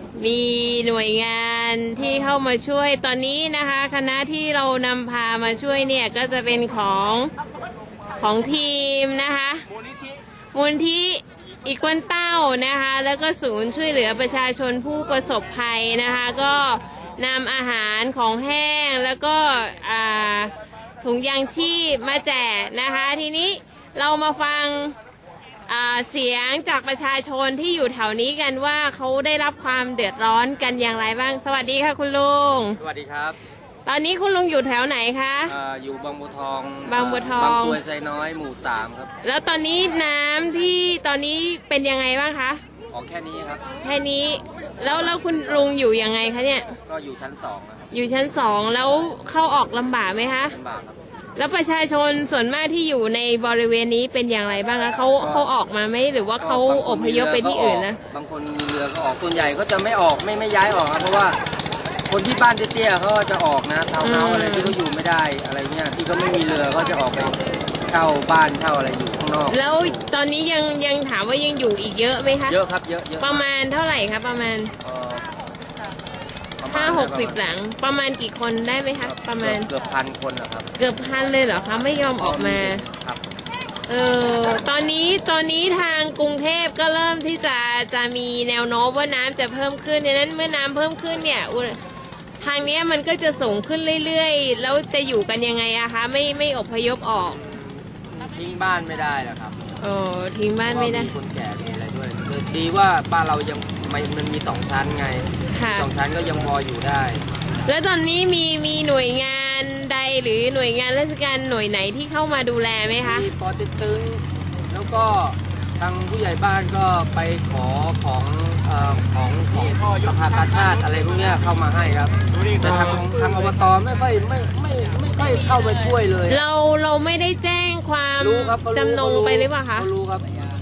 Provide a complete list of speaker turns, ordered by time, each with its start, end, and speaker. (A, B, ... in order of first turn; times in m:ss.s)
0:00.2-0:07.3 A
0:08.2-0:09.6 A
0:10.5-0:25.0 A
0:25.7-0:32.8 A
0:32.8-0:33.4 B
0:33.9-0:35.6 A
0:35.5-0:39.1 B
0:36.9-0:37.8 A
0:39.2-0:42.6 A
0:42.9-0:43.6 B
0:43.8-0:46.8 A
0:45.0-0:45.8 B
0:46.9-0:47.9 B
0:47.9-0:50.6 A
0:50.5-0:51.0 B
0:51.4-0:58.0 A
0:55.2-0:55.5 B
0:56.4-1:01.4 B
1:02.1-1:07.4 B
1:04.0-1:04.8 A
1:07.9-1:10.1 B
1:09.5-1:12.6 A
1:12.5-1:13.5 B
1:13.2-1:14.7 A
1:14.8-1:15.3 B
1:16.6-1:17.4 B
1:16.7-1:19.7 A
1:19.0-1:20.7 B
1:20.8-1:22.8 A
1:22.2-1:23.2 B
1:23.9-1:31.8 A
1:32.4-1:37.4 A
1:37.1-1:39.6 B
1:39.8-1:41.1 A
1:40.7-1:47.2 B
1:45.5-1:45.9 A
1:47.7-1:53.3 A
1:52.9-2:06.4 B
2:02.6-2:03.0 A
2:06.3-2:09.9 A
2:08.2-2:10.3 B